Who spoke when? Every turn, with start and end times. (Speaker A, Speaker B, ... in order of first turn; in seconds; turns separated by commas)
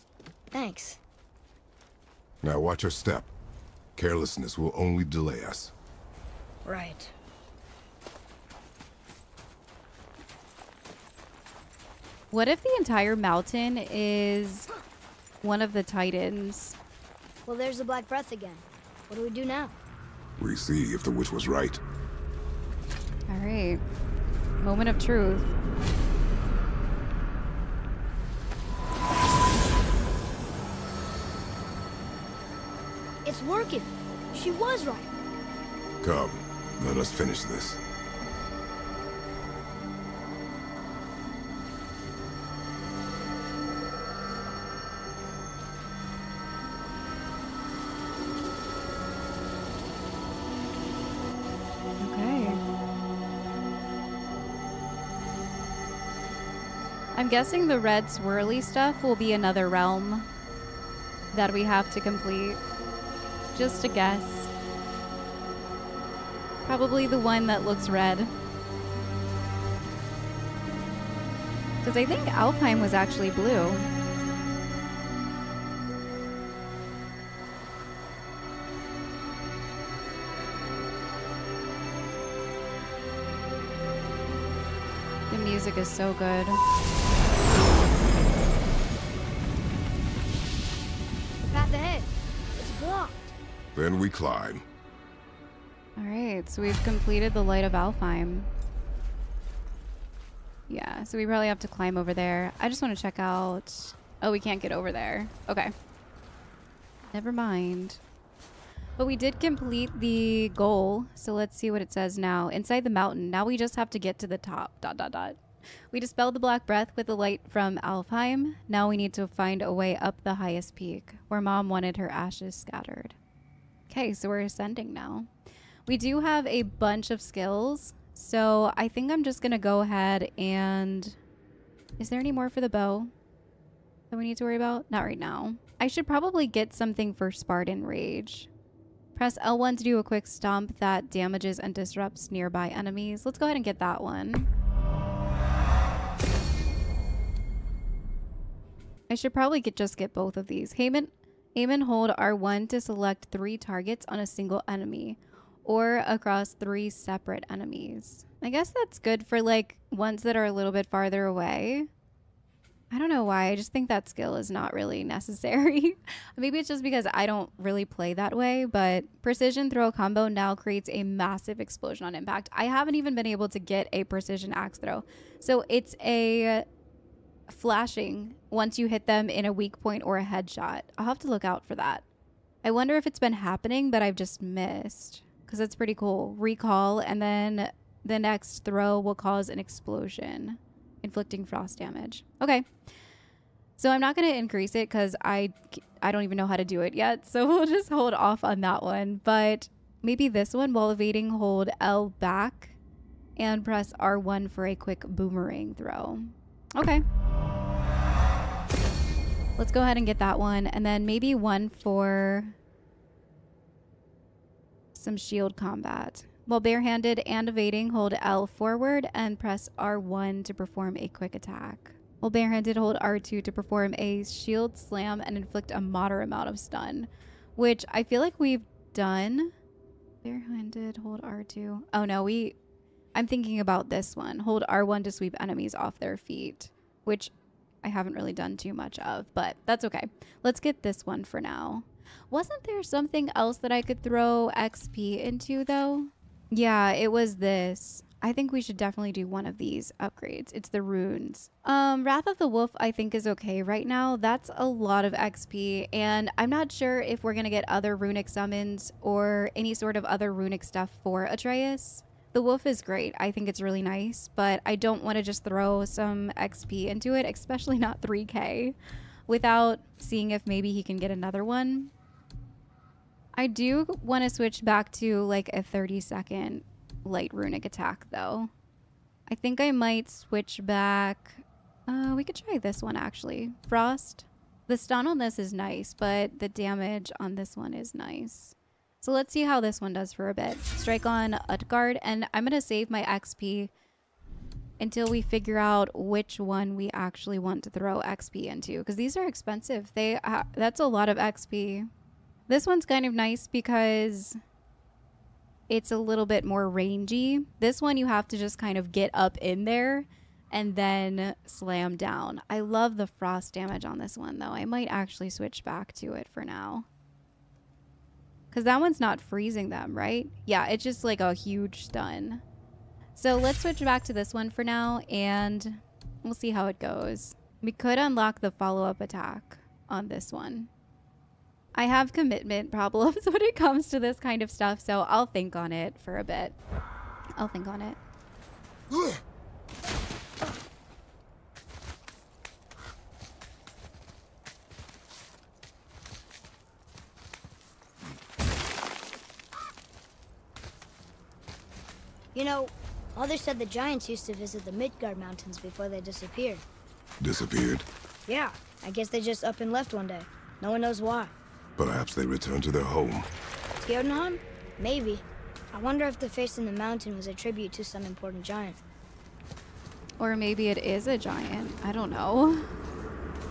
Speaker A: 0.5-1.0, Speaker B: 2.4-3.3, Speaker B: 4.0-5.7, Speaker A: 6.7-7.1, Speaker C: 12.3-14.7, Speaker C: 15.4-16.8, Speaker A: 17.5-19.8, Speaker B: 20.4-21.8, Speaker C: 23.3-23.8, Speaker C: 24.6-25.5, Speaker A: 33.2-35.1, Speaker B: 36.0-37.8, Speaker C: 52.0-52.6, Speaker C: 57.1-60.3, Speaker C: 61.3-62.6, Speaker C: 63.5-64.5, Speaker C: 66.7-68.3, Speaker C: 71.8-73.9, Speaker C: 85.3-86.6, Speaker A: 91.5-93.3, Speaker B: 93.8-94.6, Speaker C: 96.0-98.5, Speaker C: 100.7-105.7, Speaker C: 107.1-108.0, Speaker C: 109.0-123.2, Speaker C: 123.9-125.3, Speaker C: 125.9-131.2, Speaker C: 132.0-133.1, Speaker C: 134.1-138.5, Speaker C: 139.2-144.5, Speaker C: 149.1-161.9, Speaker C: 162.9-176.7, Speaker C: 177.5-182.1, Speaker C: 182.6-192.7, Speaker C: 193.8-202.8, Speaker C: 203.4-207.1, Speaker C: 209.6-212.6, Speaker C: 214.9-229.5, Speaker C: 230.2-232.6, Speaker C: 233.1-237.3, Speaker C: 237.8-268.8, Speaker C: 269.3-271.9, Speaker C: 273.4-278.5, Speaker C: 279.3-293.7, Speaker C: 294.8-301.9, Speaker C: 302.5-304.4, Speaker C: 305.7-316.9, Speaker C: 318.5-322.4, Speaker C: 323.2-330.7, Speaker C: 331.7-336.6, Speaker C: 337.4-338.0, Speaker A: 352.3-356.6, Speaker B: 357.2-357.9, Speaker A: 358.3-361.3, Speaker B: 361.8-363.3, Speaker A: 363.8-368.8, Speaker C: 370.2-372.7